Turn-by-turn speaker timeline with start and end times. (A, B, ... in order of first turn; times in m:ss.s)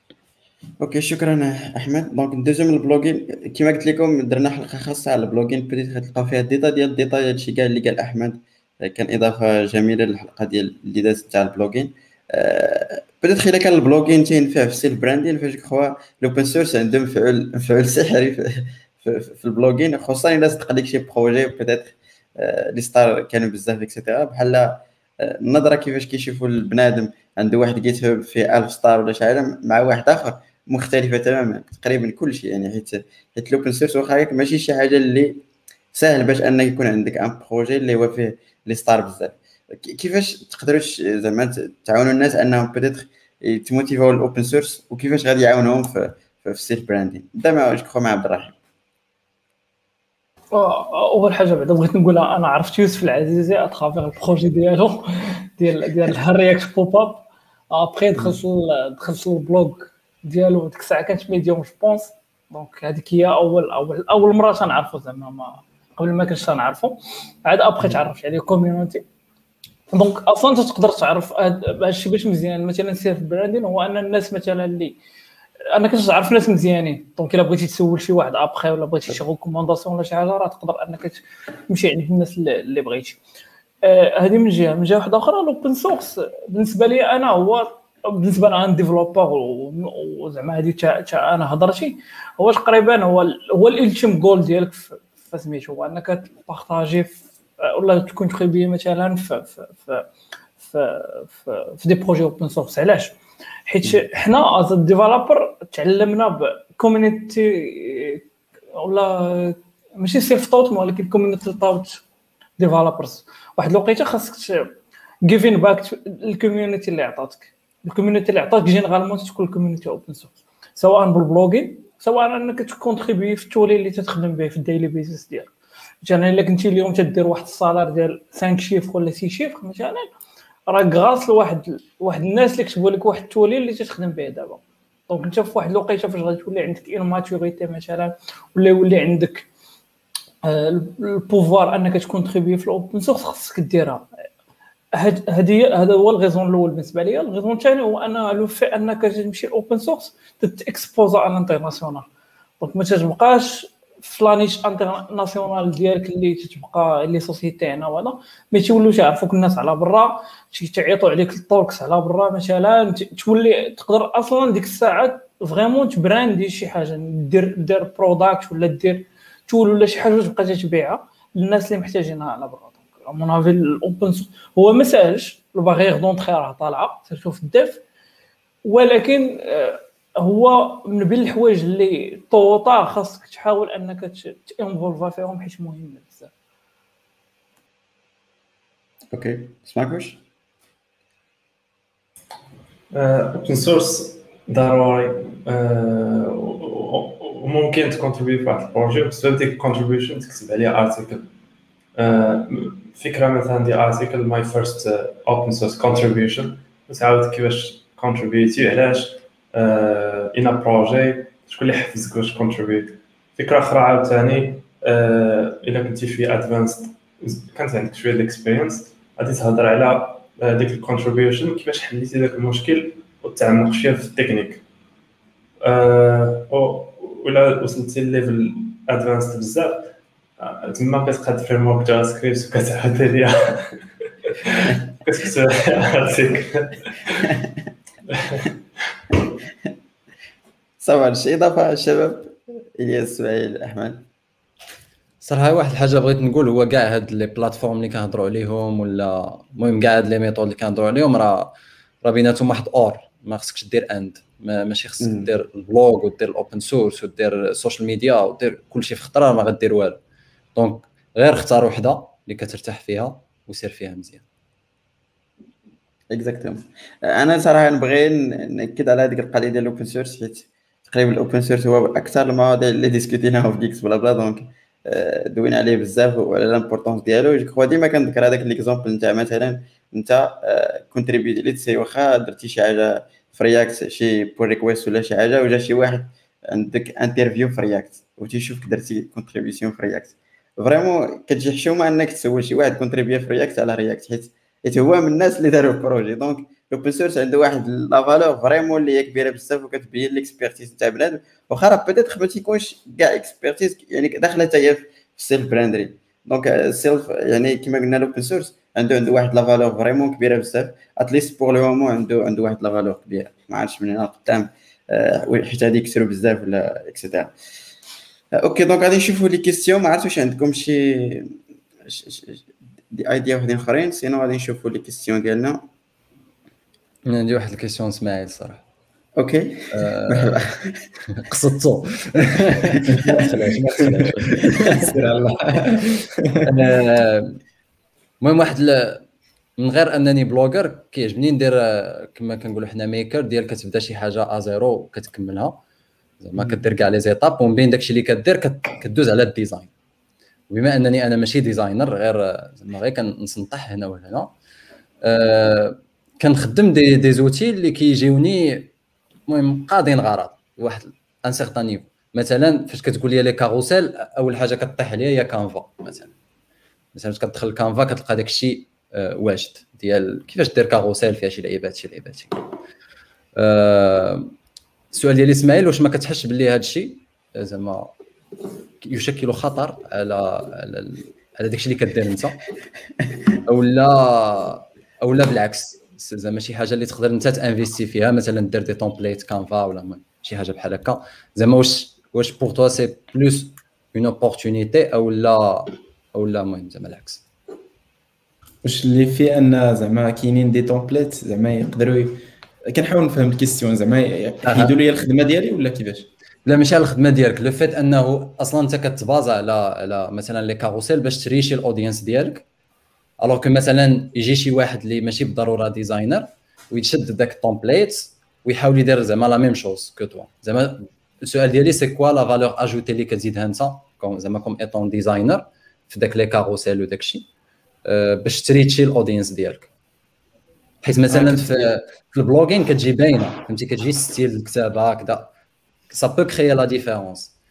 0:00.8-0:35.4 A
0:35.9-0:48.6 A
0:50.5-1:09.0 B
1:09.9-1:15.0 B
1:15.7-1:23.2 B
1:23.8-1:40.1 B
1:40.6-1:43.1 B
1:43.7-1:48.2 B
1:48.7-1:52.0 B
1:52.6-1:54.7 B
1:55.2-2:10.1 B
2:10.7-2:19.5 B
2:20.4-2:24.1 B
2:24.9-2:32.0 B
2:32.6-2:57.8 B
2:58.6-3:06.3 B
3:09.1-3:10.2 A
3:12.9-3:21.3 C
3:21.9-3:44.6 C
3:45.6-3:57.3 C
3:58.1-3:58.5 C
4:00.8-4:04.0 A
4:05.2-4:20.0 D
4:15.0-4:15.3 A
4:20.5-4:24.2 D
4:26.1-5:17.3 A
5:18.4-5:25.6 A
5:27.0-5:28.6 D
5:29.2-5:30.8 A
5:29.7-5:35.0 D
5:32.9-5:36.5 E
5:36.4-5:37.4 D
5:38.2-5:39.0 D
5:39.6-5:45.6 D
5:46.2-5:49.7 D
5:50.5-5:54.3 D
5:55.0-5:58.7 D
5:59.3-6:06.1 D
6:06.9-6:12.4 D
6:13.4-6:14.3 D
6:14.9-6:17.9 D
6:18.8-6:22.4 D
6:23.4-6:37.2 D
6:38.6-6:46.1 E
6:44.4-6:44.7 D
6:46.4-6:52.4 D
6:53.2-7:07.2 D
7:07.8-7:09.7 D
7:10.8-7:15.3 D
7:11.1-7:11.7 E
7:15.9-7:17.3 D